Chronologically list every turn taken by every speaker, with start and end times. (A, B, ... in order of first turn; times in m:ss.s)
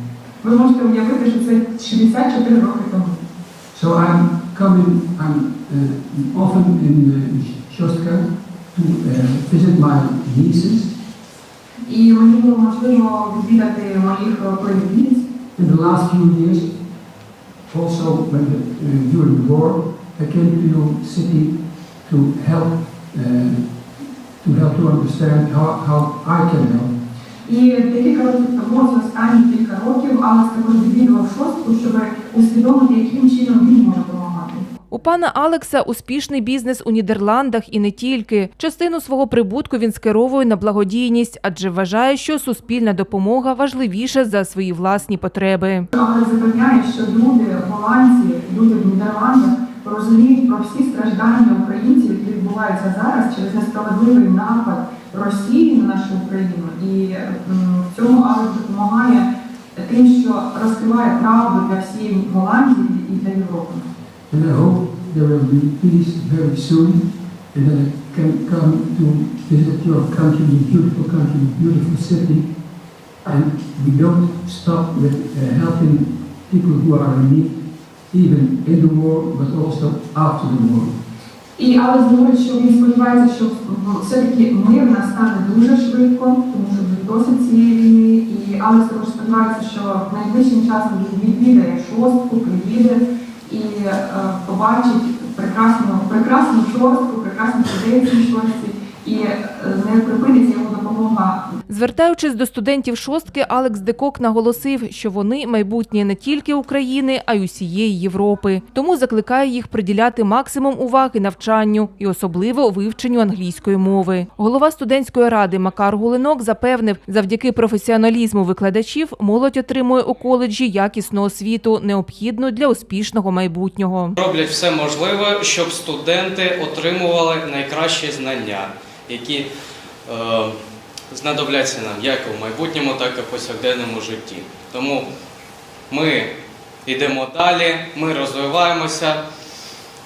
0:00.4-0:03.2 A
0:03.7-0:11.0 B
0:11.9-0:15.3 A
0:15.6-0:16.7 B
0:17.7-0:23.6 B
0:24.4-0:26.9 B
0:27.5-0:34.7 A
0:34.9-0:45.9 C
0:45.9-1:03.9 A
1:04.3-1:12.5 B
1:13.2-1:17.6 B
1:18.1-1:21.0 B
1:21.6-1:41.5 A
1:41.7-2:04.2 C
2:04.2-2:09.5 D
2:10.1-2:10.6 D
2:11.1-2:15.1 D
2:15.9-2:16.3 D
2:16.8-2:19.2 D